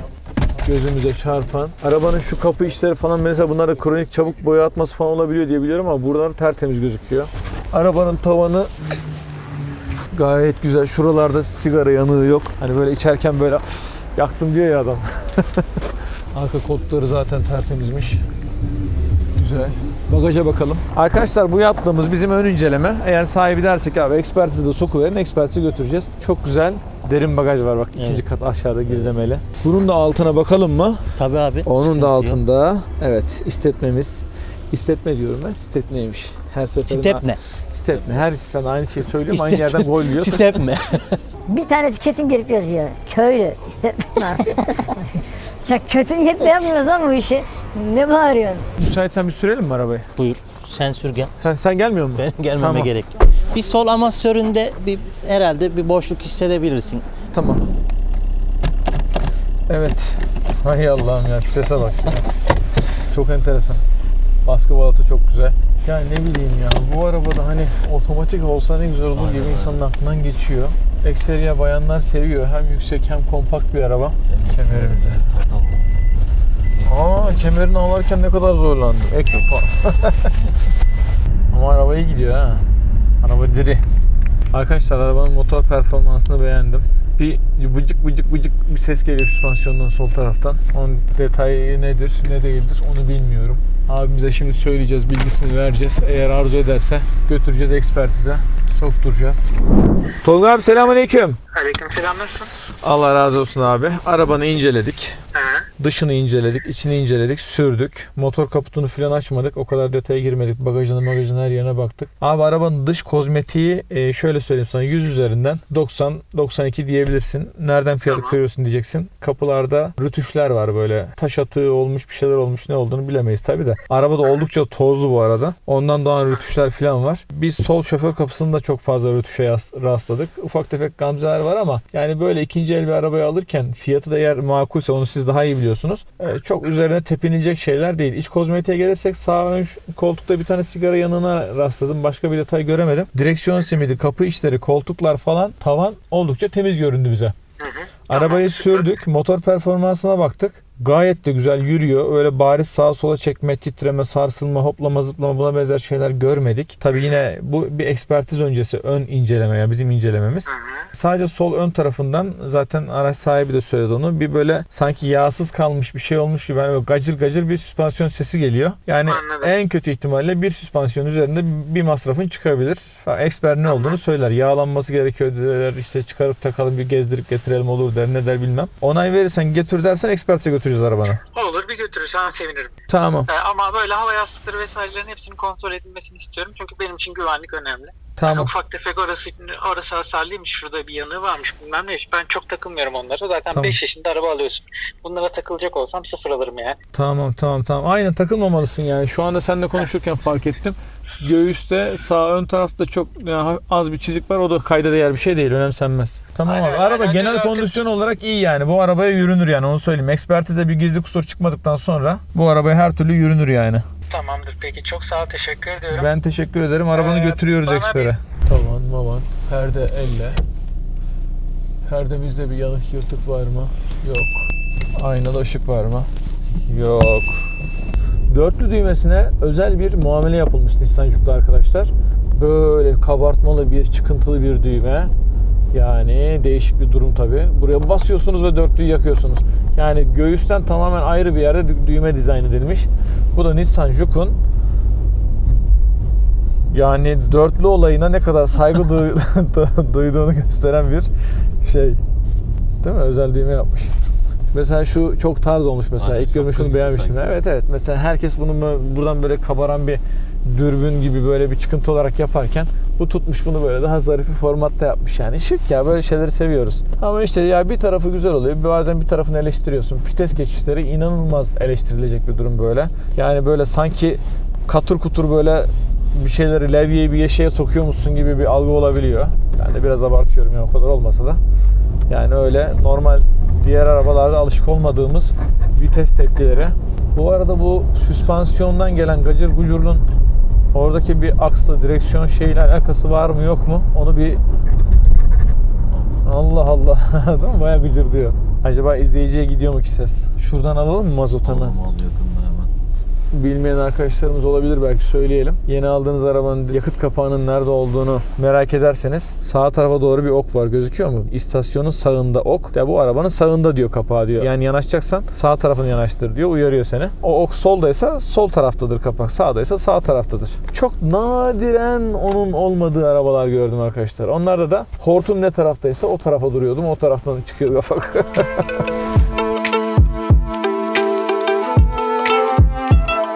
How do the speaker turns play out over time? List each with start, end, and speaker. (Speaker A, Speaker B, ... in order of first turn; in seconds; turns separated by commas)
Speaker A: 0.6-8.7, Speaker A: 10.1-15.8, Speaker A: 16.3-18.2, Speaker A: 19.4-31.1, Speaker B: 28.0-28.2, Speaker B: 28.9-29.1, Speaker B: 31.1-32.4, Speaker A: 31.6-40.6, Speaker B: 36.8-37.4, Speaker B: 39.3-41.2, Speaker C: 41.5-44.9, Speaker C: 45.7-48.6, Speaker A: 48.8-50.1, Speaker B: 50.2-51.3, Speaker A: 51.4-52.9, Speaker B: 52.2-57.0, Speaker A: 57.3-57.6, Speaker A: 59.7-62.3, Speaker A: 63.1-63.8, Speaker A: 64.4-75.2, Speaker D: 69.2-69.8, Speaker D: 74.3-75.9, Speaker A: 76.8-80.3, Speaker D: 76.8-77.3, Speaker A: 81.5-82.7, Speaker A: 83.2-83.8, Speaker A: 84.5-99.5, Speaker A: 100.2-101.4, Speaker E: 101.5-102.5, Speaker A: 102.8-105.2, Speaker E: 105.4-105.7, Speaker A: 105.8-147.3, Speaker E: 147.6-148.7, Speaker A: 148.1-181.2, Speaker E: 160.5-160.8, Speaker E: 169.1-169.5, Speaker E: 181.3-182.7, Speaker A: 182.9-183.3, Speaker E: 183.3-196.8, Speaker A: 188.2-188.5, Speaker A: 193.5-193.8, Speaker A: 196.9-213.8, Speaker E: 206.5-207.8, Speaker E: 214.1-216.1, Speaker A: 215.9-220.4, Speaker E: 216.9-218.1, Speaker A: 221.9-226.1, Speaker A: 226.7-227.4, Speaker A: 228.3-235.1, Speaker A: 235.7-244.4, Speaker A: 246.7-251.1, Speaker A: 251.6-252.0, Speaker A: 252.8-253.9, Speaker A: 254.5-281.4, Speaker D: 256.0-257.4, Speaker A: 282.1-290.1, Speaker A: 290.7-294.4, Speaker A: 296.2-301.8, Speaker D: 301.4-302.7, Speaker A: 303.3-328.8